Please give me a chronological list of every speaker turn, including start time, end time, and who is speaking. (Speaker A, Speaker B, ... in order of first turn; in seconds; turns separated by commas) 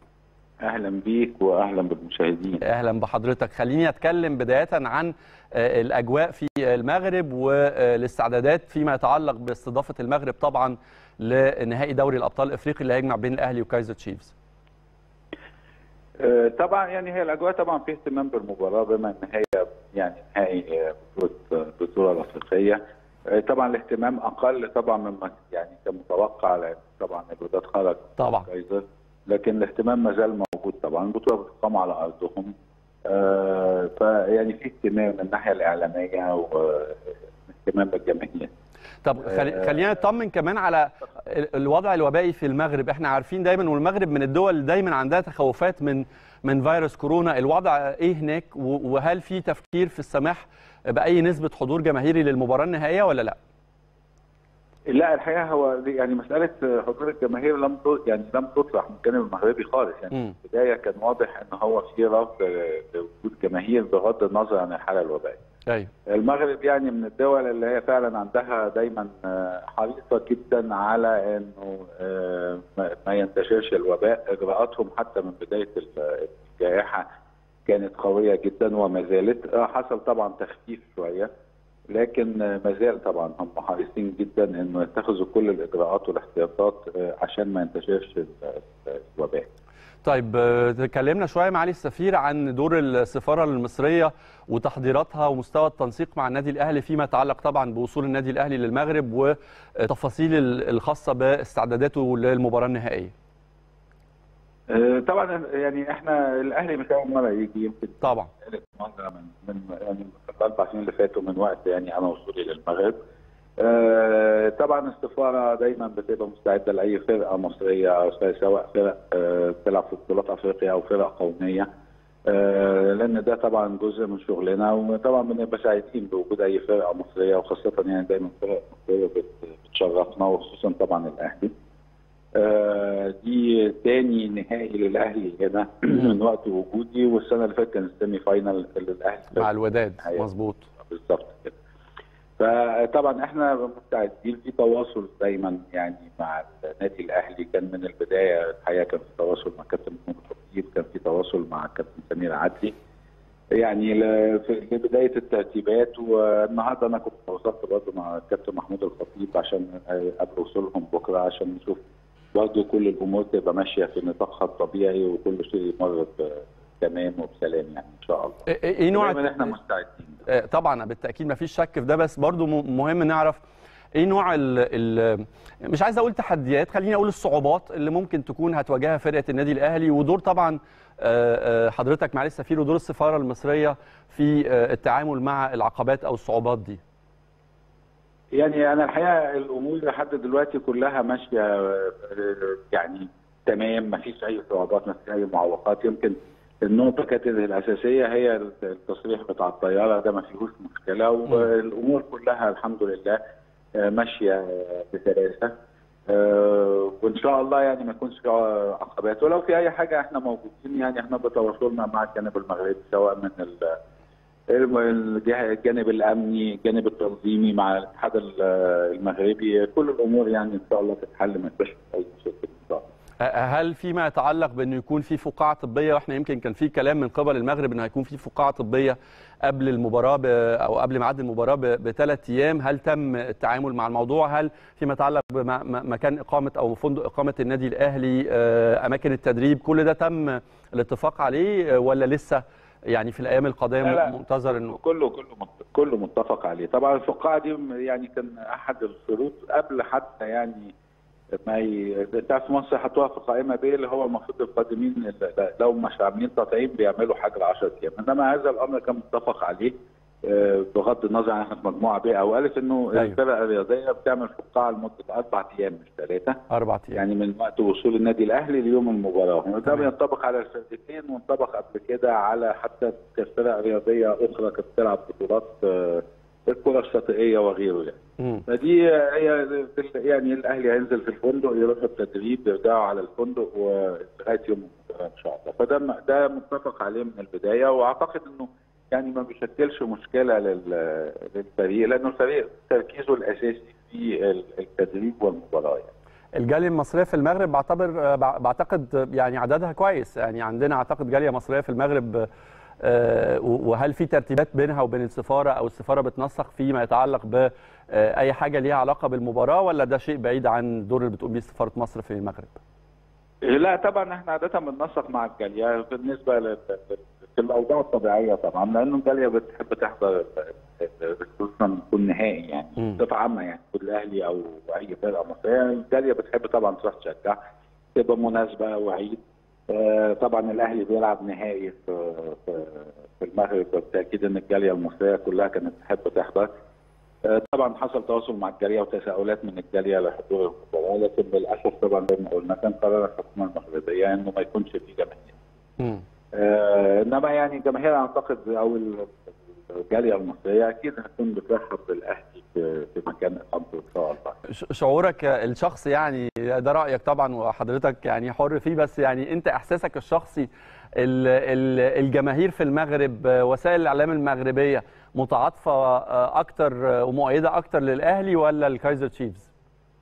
Speaker A: 0.6-2.6, Speaker B: 2.6-14.3, Speaker A: 16.2-32.5, Speaker B: 28.2-28.5, Speaker A: 33.0-38.5, Speaker B: 39.0-53.4, Speaker A: 39.2-39.8, Speaker A: 54.9-65.4, Speaker A: 66.1-77.0, Speaker A: 77.7-81.3, Speaker A: 81.9-89.5, Speaker B: 90.0-103.1, Speaker A: 104.7-112.9, Speaker B: 108.0-108.3, Speaker A: 113.6-121.7, Speaker A: 122.3-131.5, Speaker A: 132.3-140.2, Speaker B: 139.3-140.7, Speaker A: 140.8-141.6, Speaker A: 142.4-152.7, Speaker A: 153.6-161.8, Speaker A: 162.3-170.2, Speaker B: 168.5-169.3, Speaker B: 170.3-173.4, Speaker B: 173.9-186.8, Speaker A: 188.3-203.2, Speaker A: 203.8-205.5, Speaker A: 206.1-213.7, Speaker A: 214.5-222.9, Speaker B: 223.2-244.7, Speaker A: 243.8-250.7, Speaker A: 251.4-259.7, Speaker A: 260.2-266.4, Speaker B: 266.5-267.0, Speaker A: 266.9-295.9, Speaker B: 296.3-302.3, Speaker B: 302.8-312.6, Speaker A: 313.4-327.4, Speaker A: 327.9-329.2, Speaker A: 329.7-336.5, Speaker A: 337.2-345.4, Speaker A: 346.3-354.4, Speaker B: 354.5-369.5